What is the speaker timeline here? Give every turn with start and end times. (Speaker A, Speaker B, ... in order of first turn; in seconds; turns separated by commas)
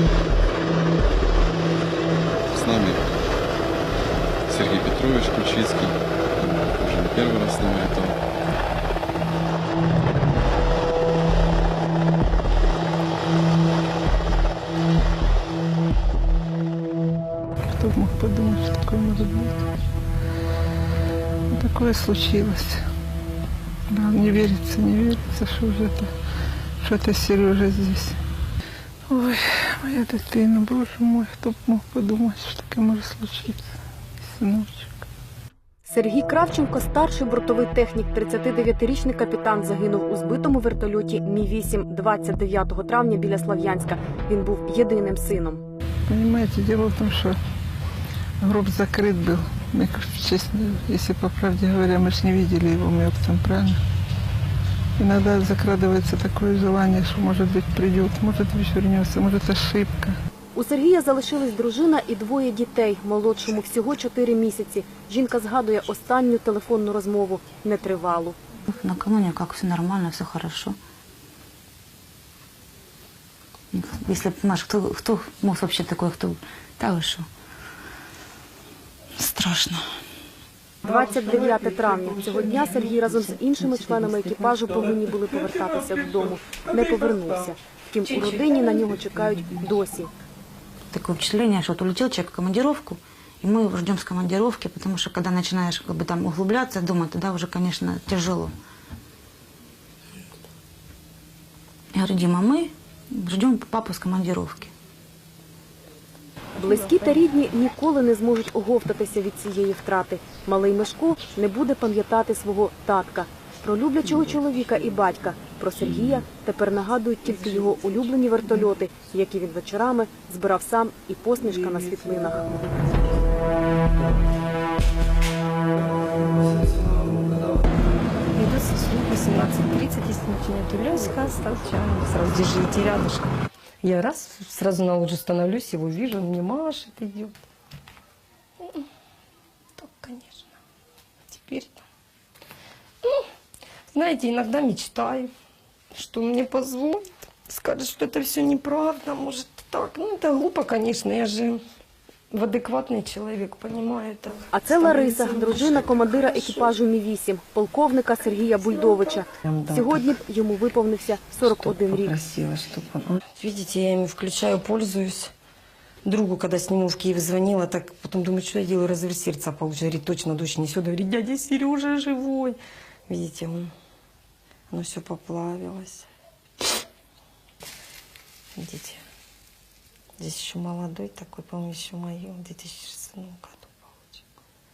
Speaker A: 2.5-3.1, Speaker A: 4.5-8.2, Speaker B: 17.6-19.7, Speaker B: 21.5-22.8, Speaker B: 23.9-26.1, Speaker B: 26.8-28.2, Speaker B: 29.1-33.6, Speaker B: 34.2-35.0, Speaker C: 35.9-45.6, Speaker B: 46.1-47.4, Speaker B: 48.4-53.8, Speaker B: 55.0-60.1, Speaker C: 60.5-68.4, Speaker D: 68.8-70.8, Speaker D: 73.7-77.2, Speaker D: 79.2-79.8, Speaker C: 80.8-90.1, Speaker D: 82.7-84.6, Speaker D: 90.9-98.5, Speaker D: 101.9-104.7, Speaker C: 106.6-122.7, Speaker E: 128.3-137.4, Speaker E: 138.6-138.9, Speaker E: 139.8-140.6, Speaker E: 141.3-141.8, Speaker E: 143.9-145.3, Speaker E: 145.9-151.6, Speaker E: 152.3-156.8, Speaker C: 154.5-162.2, Speaker E: 158.6-160.1, Speaker E: 161.4-165.3, Speaker E: 166.0-173.7, Speaker E: 174.7-176.1, Speaker E: 178.6-179.0, Speaker E: 180.2-184.2